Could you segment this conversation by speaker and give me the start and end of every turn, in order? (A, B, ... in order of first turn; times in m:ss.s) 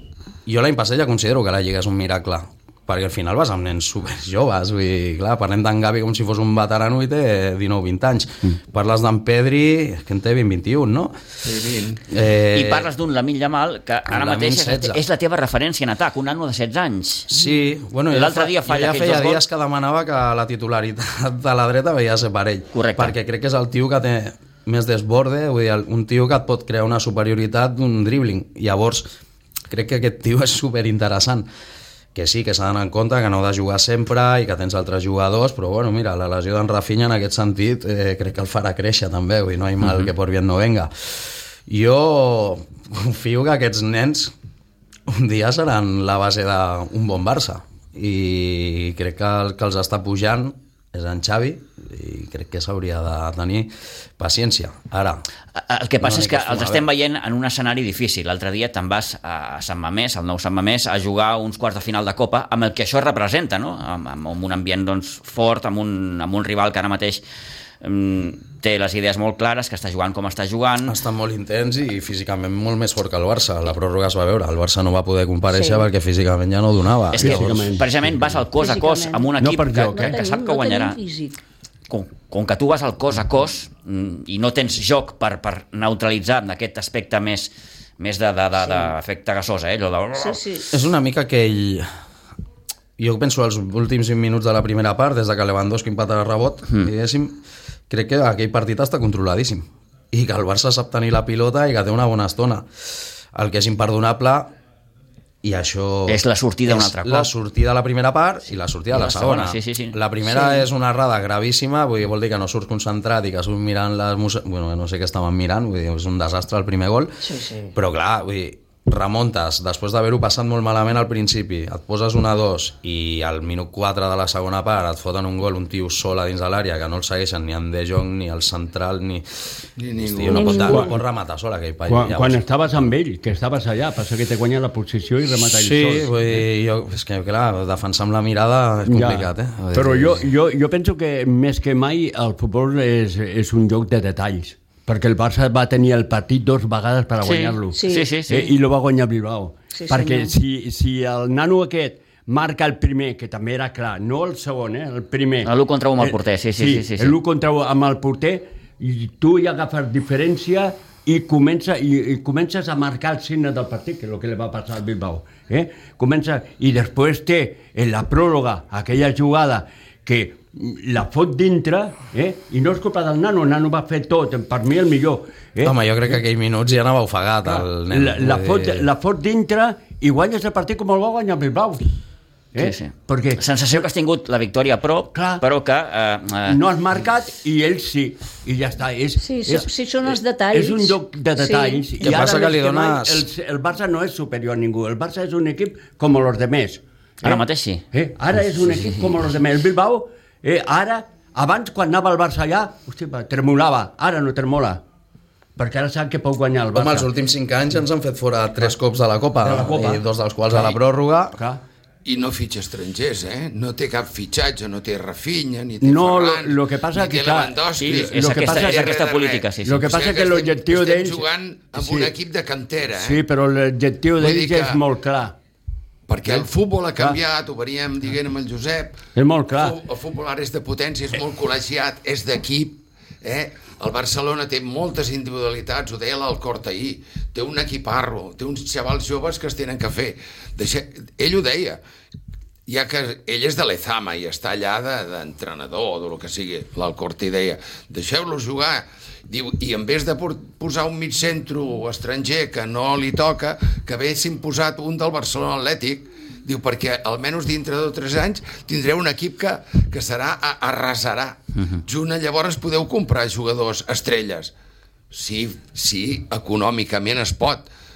0:00.5-0:11.2 A
0:11.4-0:12.0 B
0:12.1-0:12.9 A
0:12.5-0:17.3 C
0:14.1-0:15.0 A
0:17.3-0:29.1 A
0:18.1-0:19.4 C
0:22.7-0:23.1 C
0:29.7-0:31.5 A
0:32.2-0:40.9 A
0:39.8-0:40.1 C
0:41.7-0:44.3 A
0:45.1-0:55.2 A
0:55.6-1:07.2 C
0:56.0-0:56.8 A
1:07.8-1:11.0 C
1:10.9-1:17.8 A
1:15.5-1:15.9 D
1:17.1-1:21.0 C
1:17.2-1:17.9 E
1:18.6-1:19.3 D
1:19.4-1:20.2 E
1:19.9-1:21.4 D
1:21.9-1:30.4 C
1:28.6-1:28.9 D
1:30.2-1:30.7 D
1:30.7-1:31.9 A
1:33.0-1:37.4 A
1:37.9-1:42.7 A
1:43.3-1:44.5 A
1:45.4-2:09.2 A
1:46.1-1:47.3 C
1:48.9-1:50.0 C
1:50.2-1:50.6 D
1:57.2-1:57.7 D
2:09.8-2:10.8 B
2:10.0-2:12.4 A
2:10.3-2:11.0 D
2:10.6-2:10.9 E
2:11.9-2:16.4 E
2:15.4-2:20.3 A
2:18.9-2:55.8 E
2:27.2-2:28.6 C
2:27.7-2:28.1 D
2:29.7-2:30.3 D
2:35.4-2:37.2 C
2:55.6-2:58.9 A
2:57.4-3:01.9 E
3:02.5-3:03.4 E
3:02.6-3:06.6 C
3:05.1-3:05.4 E
3:06.5-3:24.8 E
3:09.2-3:11.9 D
3:12.0-3:13.3 A
3:17.2-3:17.8 C
3:18.6-3:19.1 C
3:25.6-3:27.1 E
3:26.7-3:31.4 A
3:29.4-3:30.8 E
3:32.0-3:43.2 B
3:35.8-3:38.9 E
3:37.8-3:39.9 C
3:39.6-3:42.1 E
3:42.9-3:45.4 E
3:44.2-3:44.8 B
3:46.1-3:49.0 B
3:49.2-3:49.8 E
3:49.5-4:01.8 B
4:02.7-4:24.5 B
4:25.1-4:27.7 B